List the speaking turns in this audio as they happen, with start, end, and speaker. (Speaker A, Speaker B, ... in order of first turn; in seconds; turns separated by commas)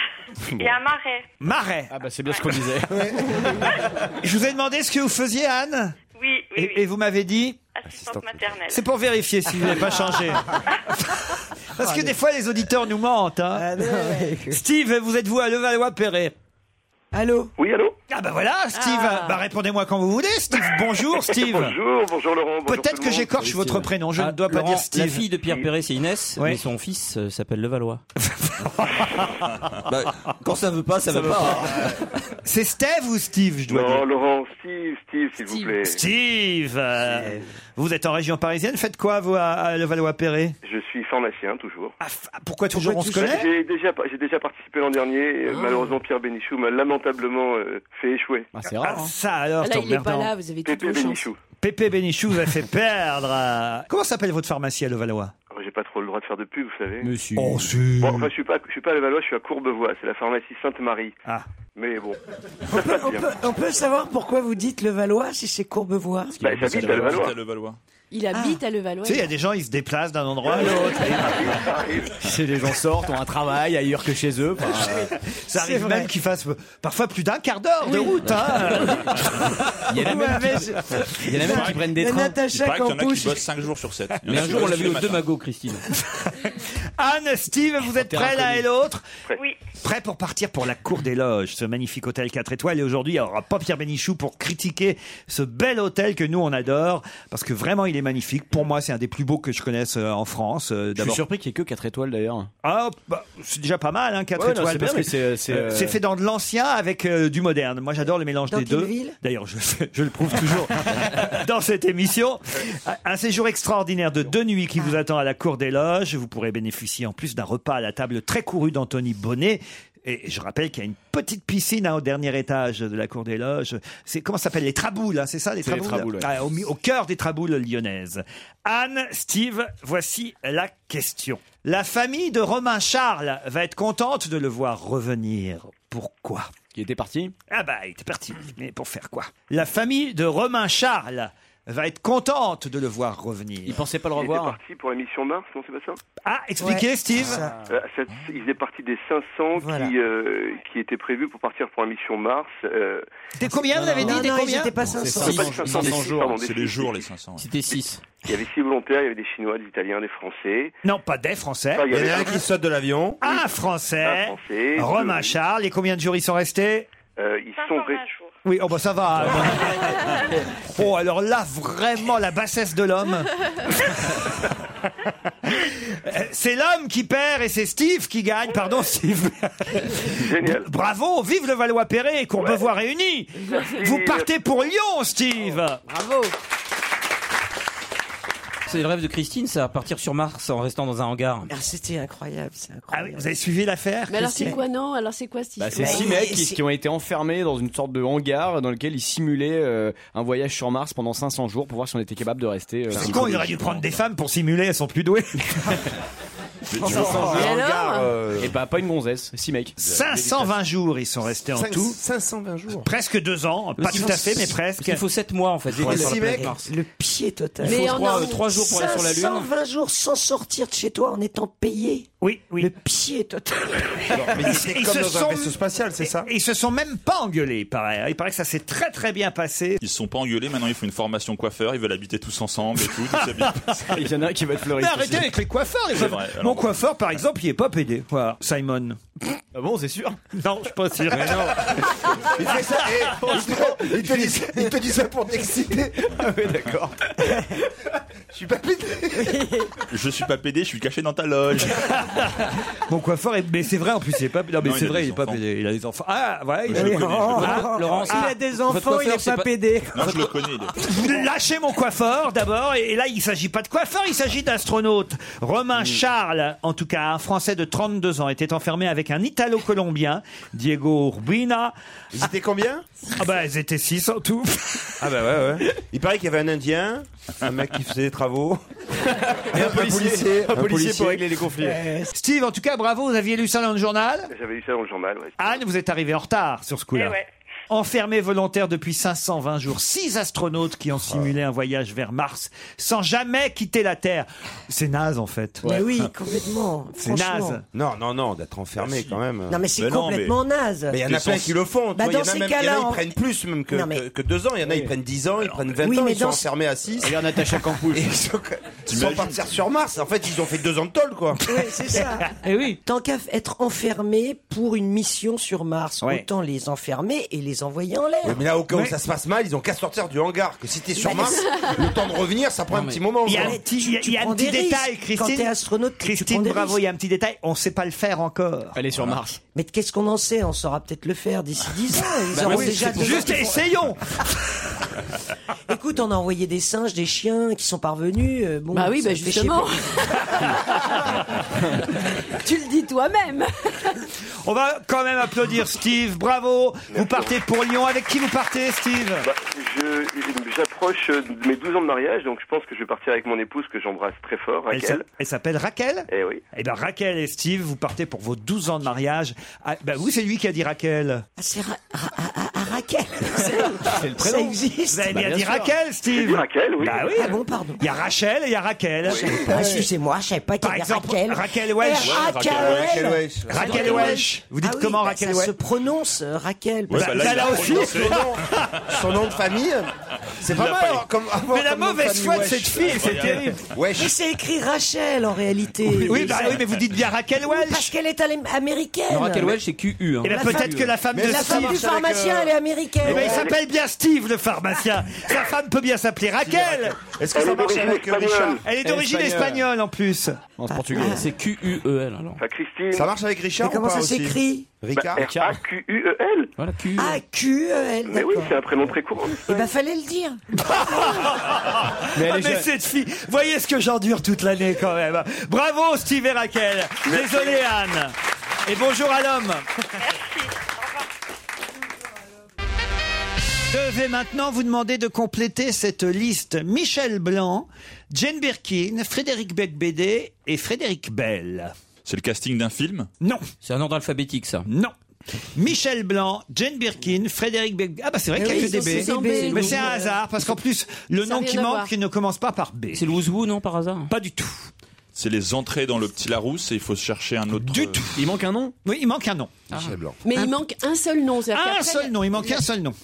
Speaker A: 0.6-1.3, Speaker B: 1.4-1.9, Speaker C: 1.9-3.5, Speaker D: 2.9-3.7, Speaker B: 4.2-6.0, Speaker A: 6.1-6.8, Speaker B: 6.5-7.6, Speaker A: 7.7-8.8, Speaker D: 7.9-8.4, Speaker B: 8.7-13.8, Speaker E: 11.8-12.1, Speaker E: 13.5-14.6, Speaker B: 14.5-16.3, Speaker E: 17.1-17.5, Speaker F: 17.6-17.9, Speaker B: 18.1-21.8, Speaker G: 18.7-19.4, Speaker F: 21.2-23.5, Speaker B: 22.7-25.3, Speaker C: 23.5-23.9, Speaker H: 24.1-28.0, Speaker B: 26.4-26.6, Speaker B: 28.2-29.5, Speaker H: 29.9-31.9, Speaker C: 31.1-32.0, Speaker B: 32.4-34.0, Speaker F: 33.7-36.0, Speaker B: 35.9-40.5, Speaker F: 40.6-41.9, Speaker B: 42.0-43.5, Speaker E: 42.7-43.5, Speaker F: 43.0-48.5, Speaker G: 45.5-45.9, Speaker C: 48.5-49.1, Speaker B: 48.8-50.3, Speaker G: 49.6-51.2, Speaker F: 50.6-51.4, Speaker B: 51.6-55.3, Speaker F: 55.5-57.1, Speaker C: 57.0-57.7, Speaker B: 57.4-58.3, Speaker F: 58.0-61.1, Speaker F: 61.8-62.2, Speaker E: 62.7-66.4, Speaker F: 62.7-63.3, Speaker C: 66.4-67.3, Speaker F: 66.4-67.3, Speaker I: 66.7-67.8, Speaker G: 68.1-69.3, Speaker E: 68.3-68.6, Speaker B: 69.0-71.6, Speaker F: 70.5-72.2, Speaker C: 72.2-75.1, Speaker B: 75.3-79.5, Speaker E: 75.5-76.1, Speaker G: 77.8-78.2, Speaker C: 79.9-82.4, Speaker E: 79.9-83.5, Speaker I: 81.5-81.8, Speaker I: 82.5-85.2, Speaker H: 84.2-85.8, Speaker B: 87.0-89.0, Speaker C: 87.9-88.7, Speaker B: 89.8-101.2, Speaker C: 101.0-102.5, Speaker B: 102.6-136.5, Speaker C: 104.3-106.0, Speaker E: 108.5-109.2, Speaker C: 125.6-126.3, Speaker C: 136.7-137.3, Speaker B: 137.5-143.8, Speaker C: 143.7-144.6, Speaker F: 144.1-146.0, Speaker B: 146.2-147.5, Speaker E: 146.6-147.6, Speaker F: 147.7-153.1, Speaker E: 149.6-149.9, Speaker B: 153.4-154.8, Speaker C: 153.7-154.2, Speaker E: 153.7-155.5, Speaker C: 154.8-156.4, Speaker F: 155.3-157.1, Speaker I: 155.6-157.5, Speaker H: 157.4-158.0, Speaker F: 158.2-160.7, Speaker B: 160.8-161.9, Speaker F: 161.7-162.4, Speaker D: 161.9-163.2, Speaker B: 163.2-166.9, Speaker F: 164.0-165.3, Speaker F: 167.2-168.0, Speaker A: 167.5-168.3, Speaker B: 168.4-174.2, Speaker B: 175.4-185.8, Speaker F: 180.1-180.7, Speaker F: 182.4-182.7, Speaker F: 183.4-184.3, Speaker G: 185.9-186.3, Speaker H: 188.7-191.5, Speaker E: 191.5-193.3, Speaker B: 192.9-194.6, Speaker G: 194.1-196.2, Speaker E: 194.2-194.6, Speaker C: 195.6-203.9, Speaker E: 195.8-196.6, Speaker D: 202.9-203.2, Speaker B: 202.9-205.8, Speaker I: 206.7-207.4, Speaker D: 206.8-208.6, Speaker C: 206.8-207.4, Speaker E: 206.8-207.1, Speaker G: 207.3-208.2, Speaker C: 208.4-209.8, Speaker B: 209.8-212.0, Speaker D: 209.8-210.4, Speaker D: 211.5-212.9, Speaker B: 212.8-215.0, Speaker H: 213.8-216.7, Speaker D: 215.7-216.5, Speaker E: 215.8-224.4, Speaker G: 217.6-219.1, Speaker H: 217.6-219.5, Speaker B: 222.2-222.7, Speaker D: 224.1-226.3, Speaker B: 224.4-225.6, Speaker B: 226.2-229.8, Speaker I: 229.8-233.8, Speaker B: 233.2-233.9, Speaker C: 233.9-235.3, Speaker B: 234.8-239.0, Speaker I: 235.9-236.7, Speaker C: 239.5-240.2, Speaker B: 240.3-241.8, Speaker D: 241.1-241.5, Speaker C: 241.2-241.7, Speaker D: 242.2-246.1, Speaker C: 243.1-244.4, Speaker B: 244.0-244.2, Speaker C: 246.0-247.6, Speaker D: 248.3-249.4, Speaker E: 249.2-249.7, Speaker I: 249.9-252.0, Speaker B: 251.8-258.4, Speaker I: 254.6-255.4, Speaker E: 256.7-260.3, Speaker I: 256.7-258.0, Speaker H: 257.3-259.5, Speaker I: 259.9-260.8, Speaker B: 260.8-271.7, Speaker D: 272.1-272.8, Speaker B: 273.1-275.6, Speaker D: 275.6-278.6, Speaker C: 279.5-281.8, Speaker D: 279.5-281.4, Speaker E: 281.6-282.1, Speaker B: 282.1-284.3, Speaker F: 284.3-285.6, Speaker B: 285.4-287.2, Speaker A: 286.9-287.3, Speaker B: 287.7-295.8, Speaker E: 295.6-297.6, Speaker B: 297.0-297.6, Speaker D: 297.7-299.6, Speaker I: 298.8-299.2, Speaker E: 299.5-301.0, Speaker I: 299.8-300.3, Speaker D: 300.9-311.4, Speaker C: 301.1-301.5, Speaker E: 301.9-303.1, Speaker E: 303.7-304.0, Speaker C: 304.6-304.9, Speaker I: 305.4-305.8, Speaker E: 305.8-306.5, Speaker C: 307.0-308.1, Speaker I: 308.9-309.4, Speaker E: 311.4-318.4, Speaker B: 312.3-312.7, Speaker D: 318.2-323.6, Speaker E: 321.0-321.4, Speaker H: 322.7-323.0, Speaker B: 323.2-328.8, Speaker E: 323.2-326.8, Speaker C: 328.7-329.4, Speaker E: 329.5-333.6, Speaker H: 332.3-333.2, Speaker C: 332.4-333.4, Speaker B: 332.6-334.0, Speaker E: 335.7-339.8, Speaker G: 338.7-344.1, Speaker B: 344.4-349.3, Speaker F: 346.9-347.4, Speaker F: 349.2-355.0, Speaker B: 354.7-361.2, Speaker F: 356.1-356.4, Speaker E: 361.4-365.2, Speaker C: 363.8-365.7, Speaker B: 364.9-369.6, Speaker F: 366.1-367.1, Speaker E: 366.9-367.8, Speaker E: 369.0-377.6, Speaker F: 369.1-369.4, Speaker D: 369.5-369.9, Speaker B: 370.6-372.3, Speaker I: 372.0-374.2, Speaker D: 372.4-374.2, Speaker B: 373.5-375.5, Speaker I: 376.9-378.8, Speaker B: 376.9-378.8, Speaker D: 377.2-384.1, Speaker I: 380.4-381.1, Speaker B: 381.5-383.6, Speaker I: 382.8-383.5, Speaker E: 383.9-386.6, Speaker B: 386.0-387.9, Speaker I: 386.1-386.8, Speaker E: 387.4-389.6, Speaker H: 389.1-390.9, Speaker B: 390.2-391.9, Speaker E: 390.2-393.5, Speaker D: 391.1-392.5, Speaker B: 393.0-397.0, Speaker F: 393.1-393.5, Speaker D: 396.4-398.6, Speaker F: 397.3-398.6, Speaker B: 398.6-400.4, Speaker C: 398.8-399.6, Speaker C: 400.6-401.3, Speaker E: 400.7-401.3, Speaker H: 401.0-402.4, Speaker F: 402.4-403.1, Speaker D: 402.9-405.2, Speaker E: 403.6-404.7, Speaker F: 404.9-406.5, Speaker C: 405.1-405.6, Speaker H: 406.6-407.2, Speaker E: 406.9-408.6, Speaker F: 408.1-409.7, Speaker E: 409.3-410.4, Speaker B: 410.6-418.1, Speaker C: 412.1-412.7, Speaker F: 417.0-417.6, Speaker B: 418.6-419.6, Speaker A: 420.0-421.1, Speaker B: 423.7-431.7, Speaker I: 432.0-433.1, Speaker H: 433.6-434.7, Speaker B: 434.7-434.9, Speaker B: 435.5-443.2, Speaker E: 438.3-439.9, Speaker G: 438.4-440.2, Speaker G: 441.2-441.9, Speaker H: 442.9-444.1, Speaker B: 444.1-444.7, Speaker I: 445.1-448.2, Speaker B: 447.6-448.2, Speaker C: 448.1-448.7, Speaker B: 448.8-449.6, Speaker H: 449.7-450.0, Speaker D: 449.7-450.2, Speaker G: 450.2-452.6, Speaker B: 451.5-452.9